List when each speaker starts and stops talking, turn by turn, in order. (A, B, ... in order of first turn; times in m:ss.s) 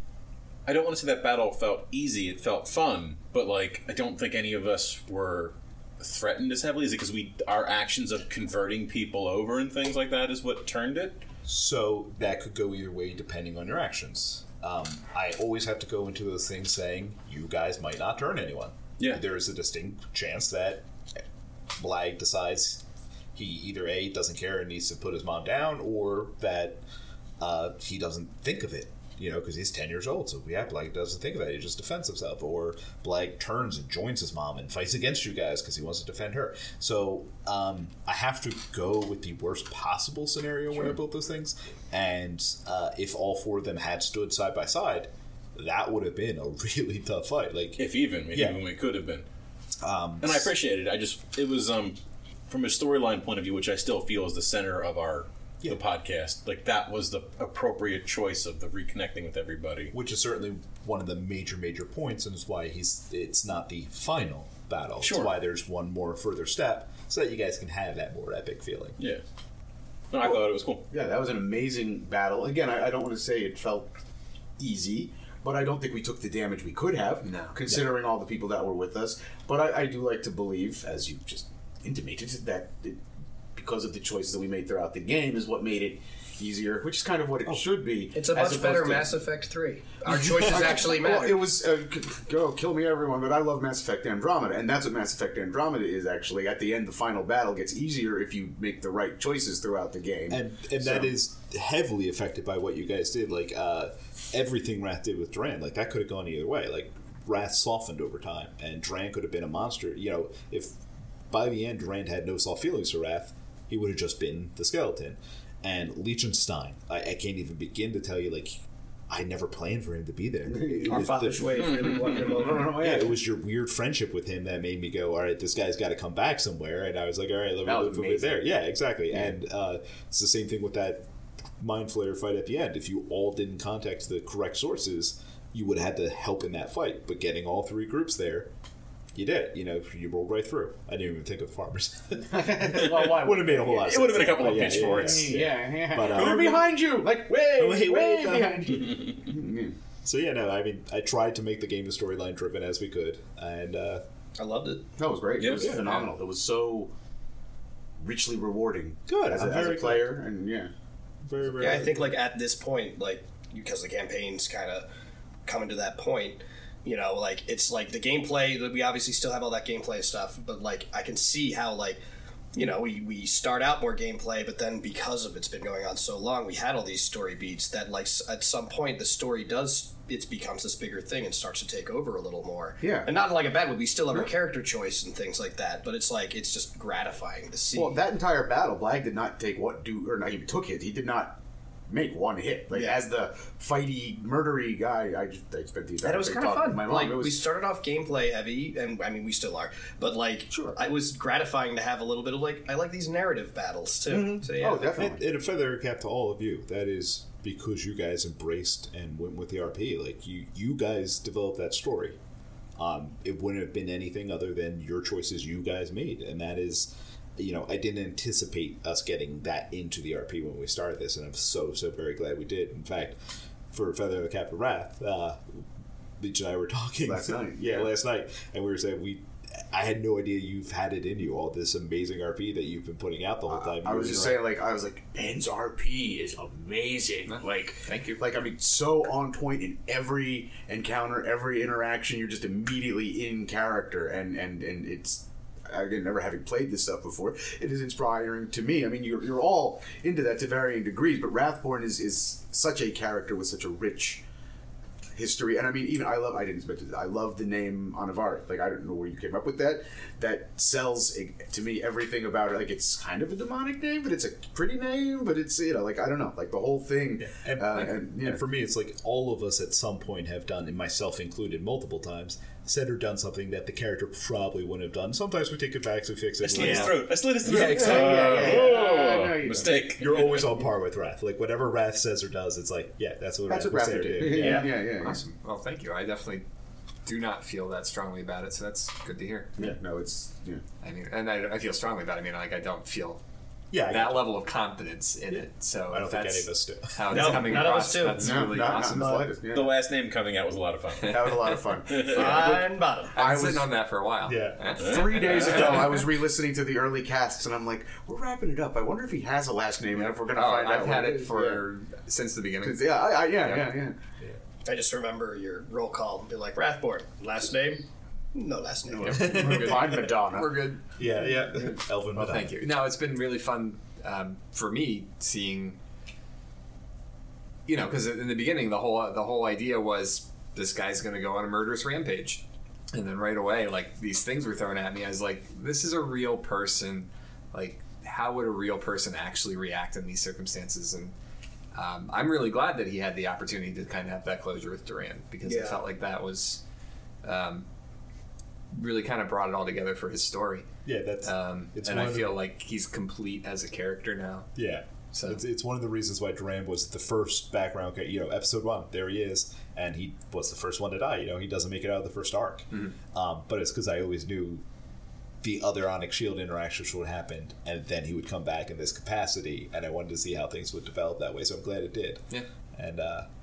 0:00.6-0:11.2 A
0:11.4-0:20.8 B
0:21.8-0:22.8 B
0:23.3-0:26.8 B
0:27.4-0:48.6 B
0:47.8-0:49.2 A
0:49.8-0:50.5 B
0:50.2-0:52.0 A
0:52.5-0:59.9 A
0:59.9-1:09.0 B
1:05.0-1:05.3 A
1:10.1-1:10.8 A
1:10.9-1:13.9 C
1:14.6-1:23.0 C
1:17.2-1:17.6 D
1:23.5-1:29.2 C
1:28.1-1:31.4 E
1:30.1-1:41.1 C
1:40.3-1:50.8 B
1:51.3-2:01.6 B
2:00.5-2:01.0 C
2:00.9-2:02.8 E
2:02.0-2:03.2 C
2:02.7-2:11.0 B
2:07.6-2:08.4 C
2:11.6-2:18.5 B
2:19.1-2:26.7 B
2:22.2-2:29.7 C
2:23.8-2:25.4 A
2:27.5-2:29.1 B
2:30.0-2:34.0 B
2:34.4-2:34.8 E
2:35.0-2:36.9 C
2:35.4-2:35.8 A
2:35.5-2:35.9 B
2:38.0-2:40.7 C
2:39.1-2:40.2 B
2:41.2-2:42.1 B
2:41.6-2:44.9 E
2:45.4-2:52.0 E
2:52.5-3:08.0 E
3:02.8-3:03.1 C
3:07.7-3:11.4 C
3:11.9-3:17.4 C
3:12.7-3:13.0 E
3:16.0-3:24.9 E
3:20.5-3:20.8 C
3:24.1-3:25.2 C
3:24.9-3:32.2 B
3:32.8-3:43.2 B
3:43.7-3:45.6 B
3:46.2-3:54.4 B
3:47.0-3:47.9 C
3:53.5-4:14.2 C
3:57.3-3:58.2 D
4:15.1-4:28.4 C
4:27.2-4:38.6 B
4:36.4-4:40.5 A
4:37.4-4:39.8 C
4:40.0-4:44.7 B
4:43.5-4:45.2 C
4:44.3-4:46.4 D
4:47.0-4:49.6 D
4:49.6-4:50.6 C
4:50.8-4:53.2 D
4:53.7-4:54.3 B
4:53.8-4:59.2 D
4:55.3-4:57.6 B
4:57.1-4:59.2 E
4:58.2-4:59.8 C
4:59.5-5:02.5 A
5:01.0-5:03.7 C
5:02.1-5:03.2 E
5:03.1-5:06.0 D
5:04.2-5:04.7 B
5:04.8-5:11.6 C
5:04.8-5:05.7 A
5:09.9-5:13.8 D
5:12.6-5:14.0 C
5:14.6-5:19.3 E
5:18.9-5:20.7 C
5:19.1-5:20.0 B
5:19.1-5:21.4 D
5:21.0-5:22.6 B
5:22.1-5:25.8 D
5:27.6-5:41.1 D
5:41.7-5:46.6 D
5:45.4-5:45.8 E
5:47.2-5:47.6 D
5:48.7-5:50.7 D
5:50.8-5:52.4 B
5:51.2-5:54.5 D
5:54.6-6:04.6 B
5:55.1-5:55.4 D
6:05.4-6:13.3 B